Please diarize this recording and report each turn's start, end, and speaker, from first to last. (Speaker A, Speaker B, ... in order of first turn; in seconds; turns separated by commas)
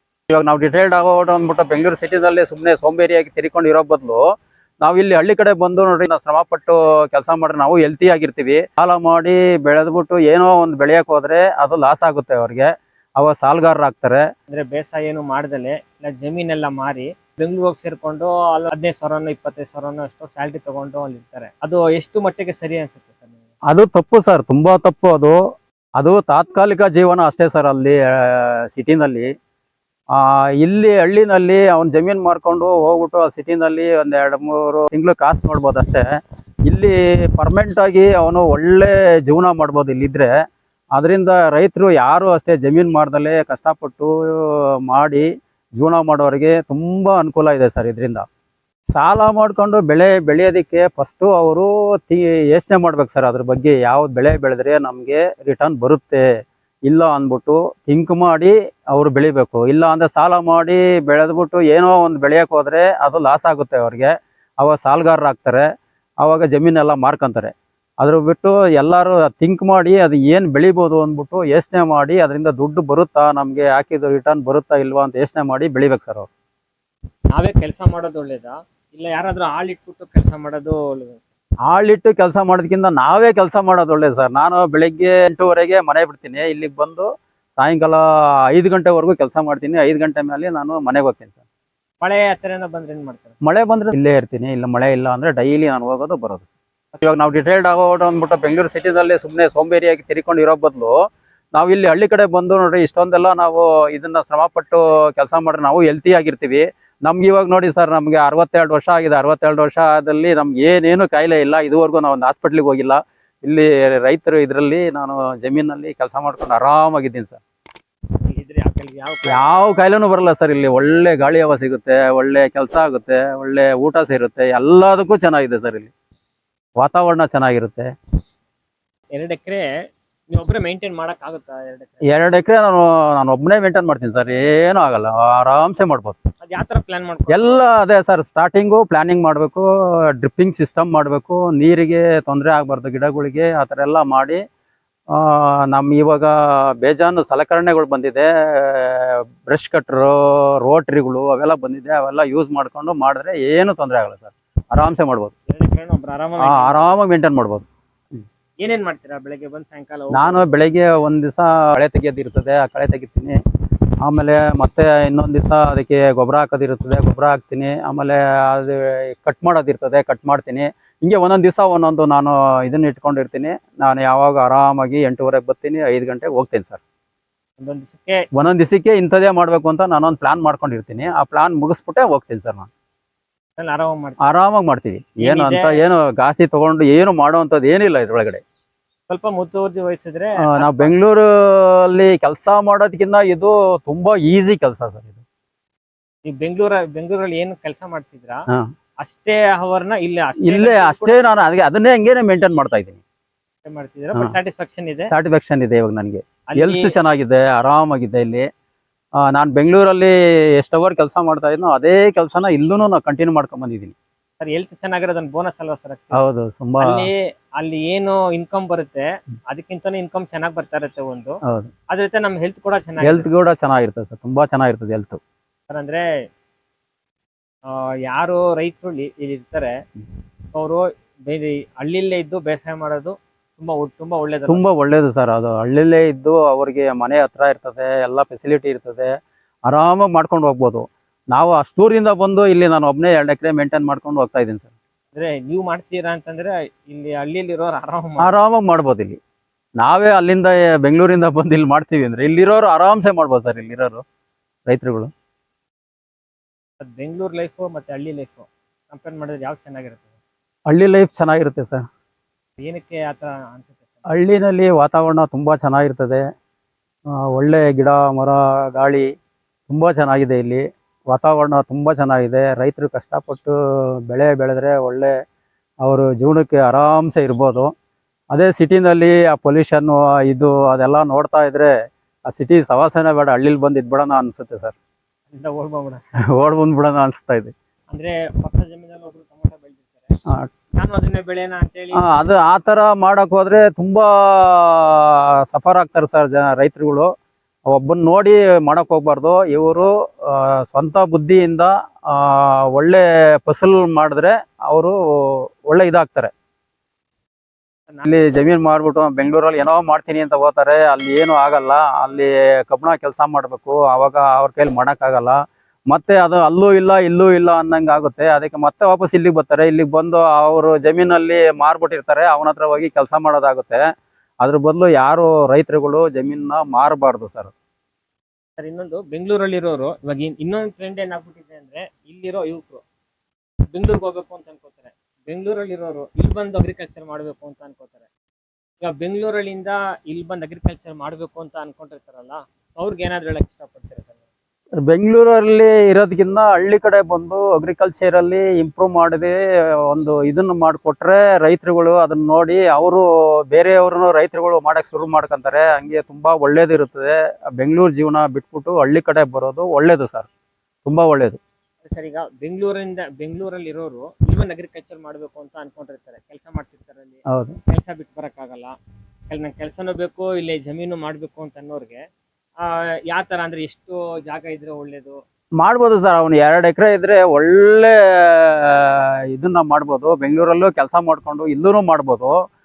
Speaker A: 0.3-4.2, Speaker A: 4.8-12.7, Speaker A: 13.2-14.2, Speaker B: 14.5-23.4, Speaker A: 23.7-25.4, Speaker A: 26.0-29.3, Speaker A: 30.1-36.0, Speaker A: 36.7-40.3, Speaker A: 41.0-45.3, Speaker A: 45.8-48.2, Speaker A: 48.9-56.2, Speaker A: 56.9-64.1, Speaker A: 64.6-65.7, Speaker A: 66.2-76.3, Speaker B: 77.3-81.3, Speaker A: 81.7-91.3, Speaker B: 92.0-93.4, Speaker A: 93.4-100.9, Speaker A: 101.5-117.4, Speaker B: 118.3-119.5, Speaker A: 119.3-125.9, Speaker A: 126.8-127.9, Speaker B: 129.1-129.7, Speaker B: 130.3-132.0, Speaker A: 132.1-136.2, Speaker B: 136.4-137.6, Speaker A: 137.3-139.7, Speaker A: 140.2-144.4, Speaker A: 145.1-155.3, Speaker B: 155.5-157.0, Speaker A: 156.4-157.7, Speaker B: 158.6-160.5, Speaker A: 160.1-163.4, Speaker A: 164.0-176.8, Speaker B: 177.6-178.2, Speaker A: 178.3-182.7, Speaker B: 183.6-184.2, Speaker A: 184.2-188.4, Speaker B: 185.2-185.8, Speaker B: 189.1-190.9, Speaker A: 190.5-195.2, Speaker B: 196.2-198.4, Speaker B: 199.0-201.4, Speaker A: 200.4-203.0, Speaker B: 203.6-205.1, Speaker A: 205.1-208.5, Speaker B: 206.5-206.9, Speaker A: 209.2-213.9, Speaker B: 214.4-216.2, Speaker A: 216.1-217.1, Speaker B: 216.8-223.3, Speaker A: 221.4-221.7, Speaker A: 223.0-225.2, Speaker B: 225.7-226.1, Speaker B: 227.7-229.7, Speaker B: 230.5-234.7, Speaker A: 234.5-239.1, Speaker A: 239.7-244.7, Speaker B: 245.1-248.3, Speaker A: 248.2-249.2, Speaker A: 249.8-254.0, Speaker A: 254.7-255.1, Speaker B: 256.8-260.1, Speaker A: 260.7-261.9, Speaker B: 262.6-264.1, Speaker A: 264.1-266.2, Speaker A: 267.2-269.1, Speaker A: 269.7-273.5, Speaker A: 274.1-275.1, Speaker A: 275.8-277.7, Speaker A: 278.3-281.7, Speaker A: 282.3-284.8, Speaker B: 285.3-286.0, Speaker A: 286.3-287.5, Speaker B: 287.9-290.1, Speaker B: 290.8-292.3, Speaker A: 291.9-297.1, Speaker A: 297.7-306.3, Speaker B: 307.9-308.4, Speaker A: 308.1-323.8, Speaker A: 324.4-327.5, Speaker B: 328.6-332.8, Speaker B: 333.7-338.1, Speaker B: 338.8-344.2, Speaker A: 344.9-360.3, Speaker A: 360.9-361.4, Speaker B: 361.8-368.8, Speaker A: 367.3-367.6, Speaker B: 369.3-372.0, Speaker B: 372.6-375.2, Speaker A: 375.6-382.3